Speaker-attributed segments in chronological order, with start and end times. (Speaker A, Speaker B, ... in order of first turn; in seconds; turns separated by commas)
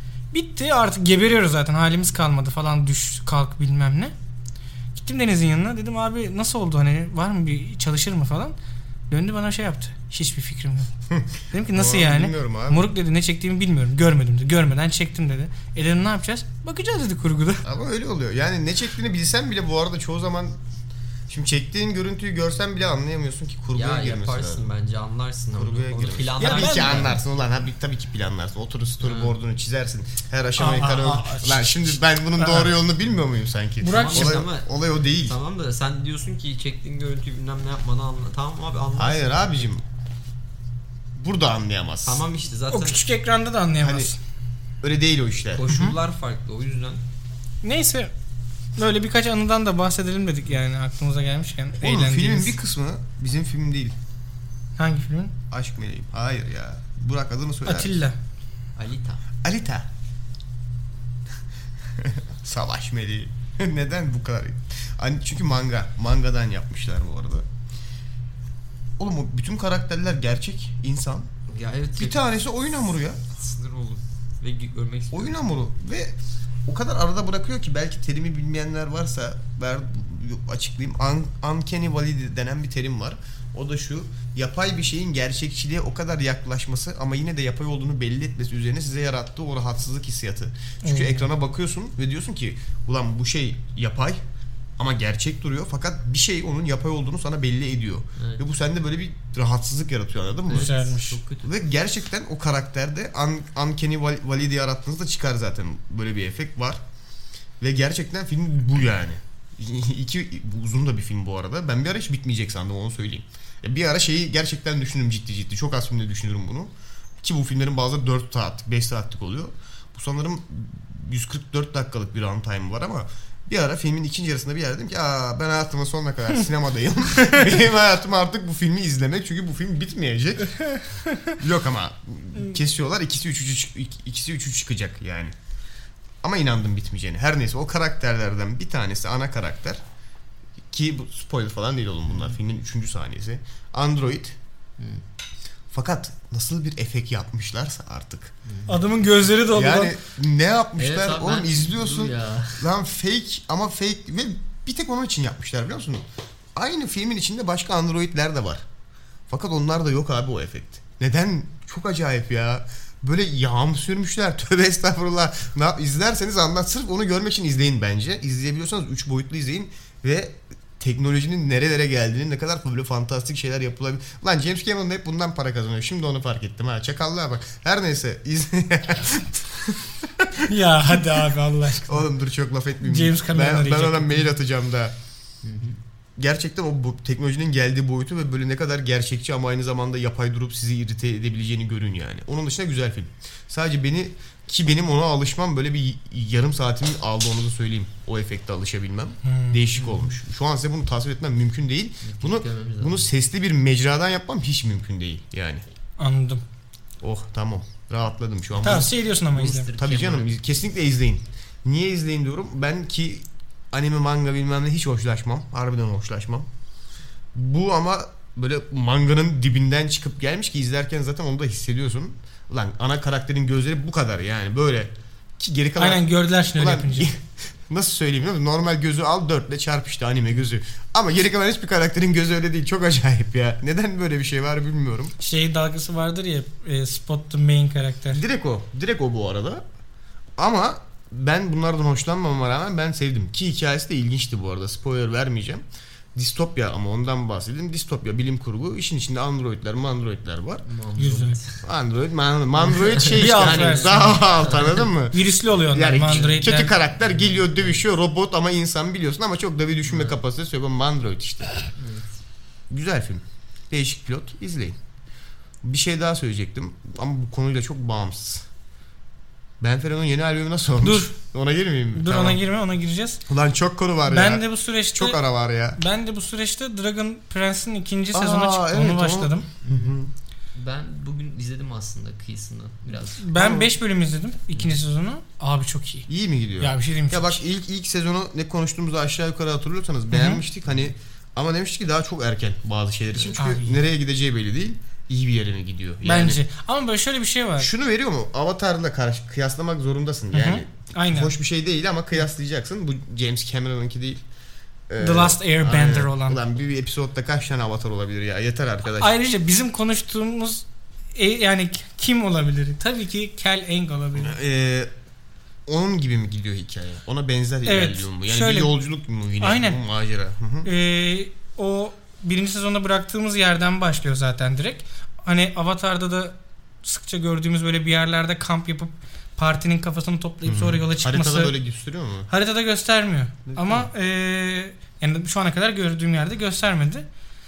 Speaker A: 0.3-4.1, Speaker A: 4.9-8.5, Speaker A: 9.1-10.9, Speaker B: 11.1-12.9, Speaker A: 11.5-17.6, Speaker B: 17.6-20.6, Speaker B: 21.3-24.7, Speaker C: 23.7-27.2, Speaker B: 25.5-35.4, Speaker A: 26.4-27.1, Speaker C: 29.0-29.4, Speaker A: 30.6-32.7, Speaker A: 33.8-34.4, Speaker C: 33.9-39.7, Speaker B: 39.0-39.8, Speaker B: 41.1-42.2, Speaker C: 42.0-43.0, Speaker A: 42.7-44.2, Speaker B: 43.8-44.1, Speaker B: 44.8-45.8, Speaker C: 45.5-47.0, Speaker A: 45.7-45.9, Speaker A: 47.6-48.1, Speaker A: 48.8-52.6, Speaker B: 51.8-53.9, Speaker A: 54.8-55.3, Speaker B: 55.5-58.0, Speaker A: 57.6-58.2, Speaker C: 58.8-59.2, Speaker B: 59.4-59.9, Speaker B: 61.9-67.5, Speaker B: 69.0-71.3, Speaker C: 71.5-72.3, Speaker B: 72.0-73.2, Speaker C: 73.4-75.4, Speaker B: 75.1-76.2, Speaker B: 76.7-94.2, Speaker A: 90.8-91.3, Speaker B: 94.8-100.7, Speaker C: 98.2-98.4, Speaker C: 100.5-101.5, Speaker A: 100.5-101.2, Speaker B: 101.4-106.8, Speaker B: 107.6-130.6, Speaker A: 130.7-131.3, Speaker B: 131.4-135.3, Speaker B: 136.2-139.8, Speaker B: 140.7-144.4, Speaker B: 145.7-148.3, Speaker C: 148.5-148.7, Speaker A: 148.7-149.9, Speaker B: 149.5-158.6, Speaker C: 150.8-152.7, Speaker B: 159.3-181.2, Speaker A: 180.4-182.1, Speaker B: 181.8-184.9, Speaker A: 182.8-184.3, Speaker C: 185.4-185.8, Speaker B: 186.2-205.6, Speaker A: 199.2-199.6, Speaker C: 199.7-200.1, Speaker C: 202.0-203.1, Speaker A: 206.0-206.4, Speaker B: 207.0-208.9, Speaker A: 208.6-209.7, Speaker C: 209.3-210.4, Speaker B: 209.8-216.5, Speaker B: 217.3-235.1, Speaker A: 225.8-227.1, Speaker A: 235.2-238.2, Speaker B: 238.1-239.6, Speaker B: 240.4-245.6, Speaker B: 246.1-250.6, Speaker C: 250.7-251.6, Speaker A: 251.0-251.4, Speaker B: 251.6-261.6, Speaker C: 252.6-254.8, Speaker A: 253.1-254.2, Speaker A: 255.1-256.7, Speaker C: 256.0-256.5, Speaker C: 257.1-257.8, Speaker C: 259.9-260.1, Speaker C: 261.8-262.1, Speaker B: 262.7-264.8, Speaker B: 265.6-268.5, Speaker B: 269.6-272.4, Speaker A: 270.8-271.1, Speaker A: 271.9-273.2, Speaker B: 273.3-275.8, Speaker A: 274.1-275.2, Speaker A: 275.8-279.4, Speaker B: 278.1-280.1, Speaker C: 279.6-279.9, Speaker C: 280.6-283.3, Speaker A: 283.2-286.1, Speaker B: 283.3-283.7, Speaker B: 286.1-296.4, Speaker A: 286.6-287.4, Speaker A: 290.1-290.4, Speaker A: 293.4-293.8, Speaker A: 296.0-297.7, Speaker B: 297.6-304.2, Speaker A: 300.3-301.3, Speaker B: 304.9-309.1, Speaker A: 305.0-306.4, Speaker A: 308.9-314.4, Speaker B: 314.1-314.9, Speaker B: 315.6-320.7, Speaker A: 317.6-318.7, Speaker A: 319.4-319.8, Speaker A: 320.6-331.5, Speaker B: 330.4-332.3, Speaker A: 332.3-337.1, Speaker B: 333.5-333.9